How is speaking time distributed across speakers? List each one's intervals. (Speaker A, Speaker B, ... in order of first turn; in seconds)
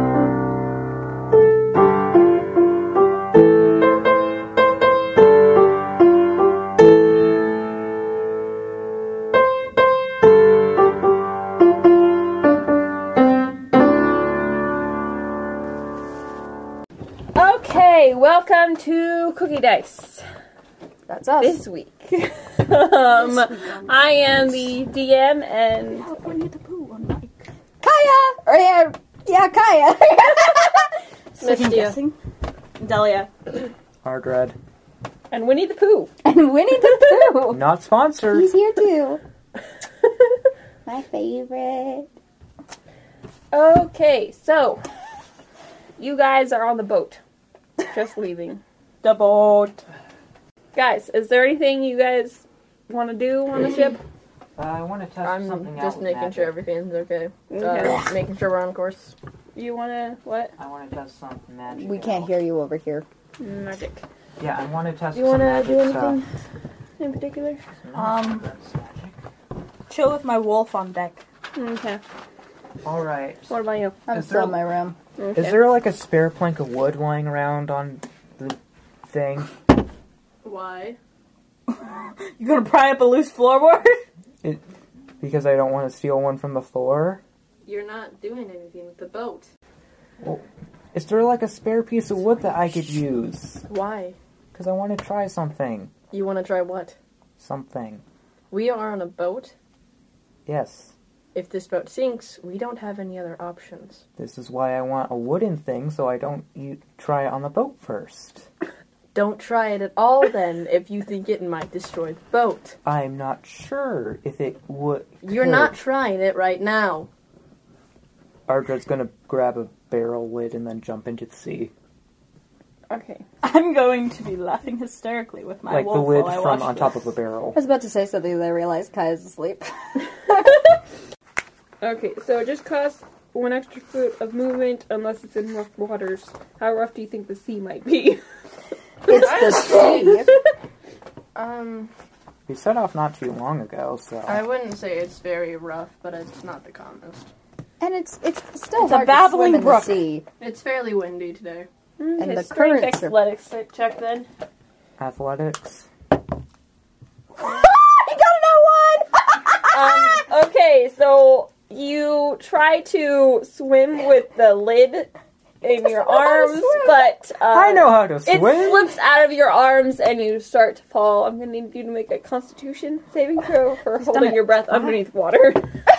Speaker A: 17.4-20.3, 21.4-26.1, 35.3-36.1, 43.5-44.8, 46.0-47.2, 47.9-48.6, 50.7-54.0, 57.5-58.0, 59.5-60.5, 63.4-64.0, 65.1-66.3, 67.0-67.6, 71.5-72.0, 73.5-74.0, 75.2-75.6, 122.9-123.2, 131.8-138.2, 139.1-140.2, 152.0-154.3, 159.7-165.1, 165.6-175.6
Speaker B: 21.1-21.6, 27.8-30.9, 36.2-37.6, 38.3-39.2, 40.9-42.1, 61.8-63.1, 74.1-75.0, 127.5-129.7, 139.1-140.3, 147.8-150.2, 152.2-153.2, 157.4-159.1, 165.7-167.0
Speaker C: 26.0-27.4, 31.4-32.1, 32.8-33.3, 49.0-49.8, 68.0-68.5, 69.9-71.2, 81.7-84.0, 123.4-127.0, 148.8-150.0, 174.0-175.0
Speaker D: 31.4-32.0, 55.2-59.1, 80.4-81.0, 87.7-89.5, 93.7-94.2, 96.1-97.0, 98.5-99.5, 101.3-104.0, 109.1-112.8, 115.2-117.1, 139.1-140.2, 141.3-141.9, 144.3-147.3, 150.4-151.7
Speaker E: 34.0-34.6, 37.5-38.5, 54.6-56.5, 60.6-62.4, 64.4-66.2, 67.8-69.2, 72.8-73.6, 74.1-74.6, 75.3-79.5, 85.2-87.2, 90.2-93.7, 94.5-95.9, 97.4-98.0, 100.5-100.9, 104.2-108.5, 112.8-115.7, 118.5-121.7, 125.7-127.6, 142.5-144.4, 155.0-155.9, 167.5-168.9